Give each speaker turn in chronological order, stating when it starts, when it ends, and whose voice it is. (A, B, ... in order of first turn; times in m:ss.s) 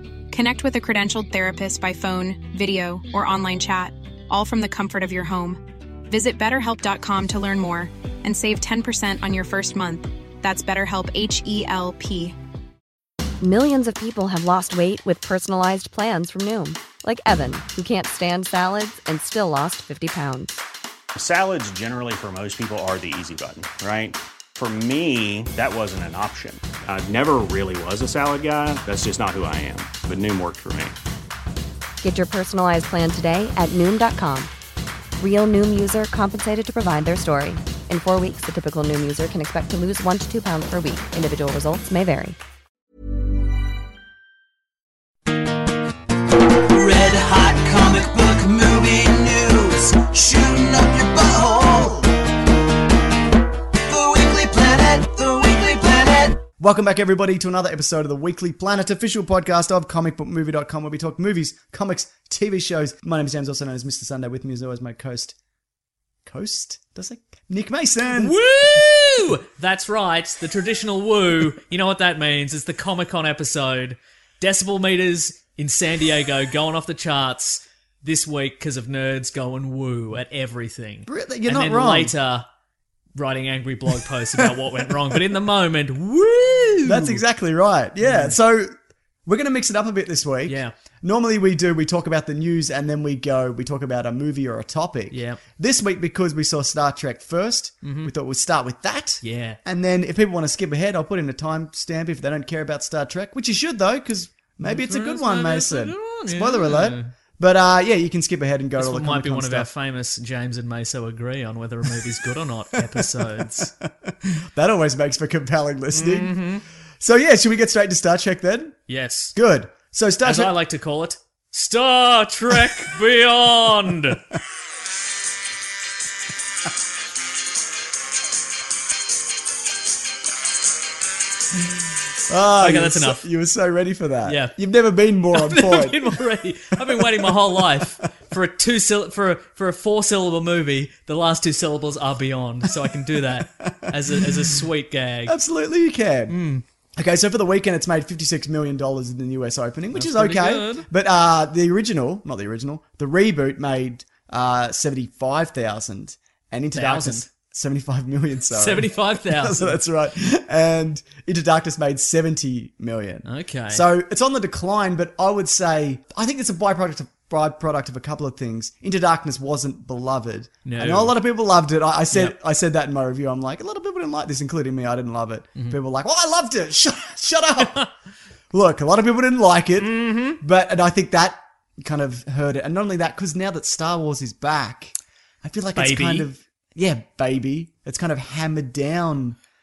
0:00.3-0:12.3 A
0:13.4-0:20.6 B
0:21.1-0:31.0 C
0:32.0-0:34.5 B
0:35.2-0:42.4 B
0:46.8-0:47.9 D
0:47.0-0:47.7 E
0:48.4-0:51.8 E
0:54.2-0:54.8 E
0:56.5-1:05.4 F
1:06.2-1:08.3 F
1:08.1-1:22.4 D
1:21.0-1:22.1 F
1:23.1-1:27.2 D
1:26.8-1:28.7 F
1:28.0-1:28.4 D
1:29.2-1:49.7 F
1:30.4-1:30.7 D
1:35.1-1:35.4 D
1:37.8-1:38.1 D
1:39.2-1:39.6 D
1:44.6-1:47.1 D
1:48.8-1:53.7 D
1:52.8-1:56.3 F
1:55.9-1:56.6 D
1:57.0-1:58.8 F
1:58.9-1:59.4 D
1:59.3-2:00.5 F
2:00.2-2:04.2 D
2:12.3-2:16.2 F
2:12.6-2:13.3 D
2:14.2-2:14.6 D
2:15.3-2:25.4 D
2:16.8-2:17.8 F
2:23.3-2:24.5 F
2:25.3-2:26.3 F
2:26.3-2:26.6 D
2:27.0-2:57.9 F
2:29.9-2:30.9 D
2:36.7-2:37.3 D
2:38.5-2:39.8 D
2:43.2-2:43.9 D
2:50.6-2:51.1 D
2:57.6-2:57.9 D
2:58.5-3:09.4 F
2:59.8-3:00.4 D
3:05.7-3:06.3 D